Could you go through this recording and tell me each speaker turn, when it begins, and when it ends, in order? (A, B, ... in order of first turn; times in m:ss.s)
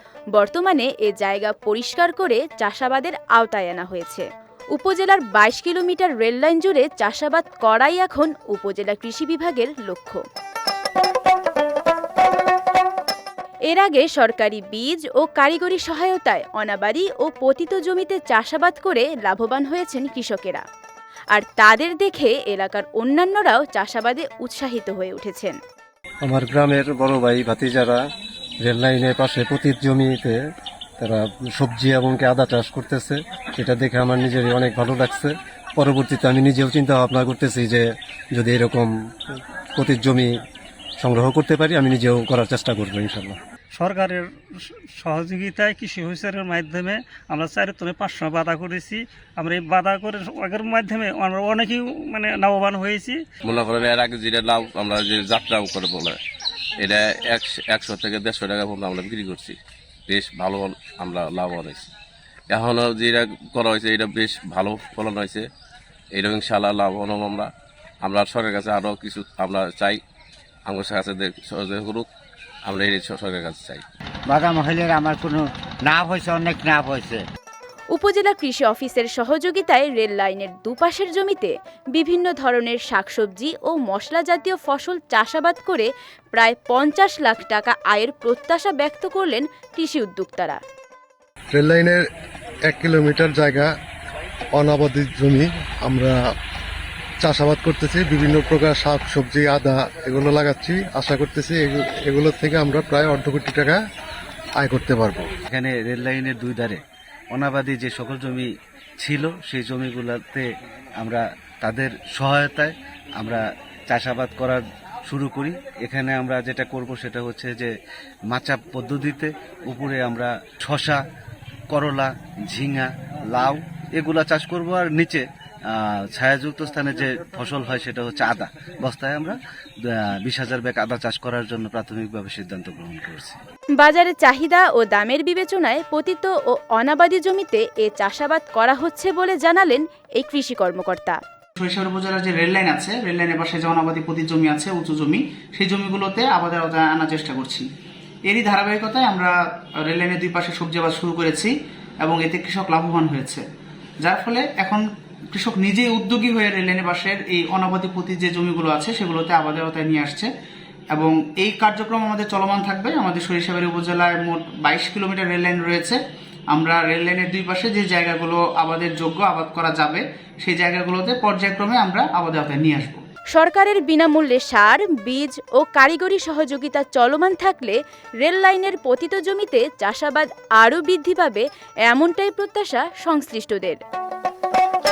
0:00.4-0:10.2 A
0:13.7-0:20.6 A
0:21.3-0:25.6 A
0:26.2-0:28.0 B
0:28.6-0:30.4 B
0:31.0-0:40.4 B
0:41.0-0:43.4 B
0:43.7-0:44.3 C
0:45.0-0:53.2 C
0:53.4-0:56.2 D
0:56.8-0:59.6 D
1:00.1-1:01.9 D
1:02.5-1:05.4 D
1:06.1-1:07.5 D
1:08.0-1:10.0 D
1:10.7-1:12.1 D
1:12.7-1:13.8 D
1:14.3-1:17.2 E
1:18.0-1:30.6 A
1:31.5-1:32.0 F
1:32.7-1:33.7 F
1:34.6-1:36.2 F
1:37.2-1:43.8 F
1:44.6-1:45.3 F
1:45.5-1:46.8 G
1:47.3-1:48.5 G
1:49.0-1:50.4 G
1:51.0-1:57.7 G
1:58.3-2:01.0 G
2:01.7-2:09.4 G
2:09.9-2:13.4 G
2:13.8-2:21.2 A
2:21.6-2:27.7 H
2:28.3-2:33.4 H
2:34.0-2:40.3 H
2:40.9-2:46.0 H
2:46.5-2:53.0 H
2:53.4-3:03.8 A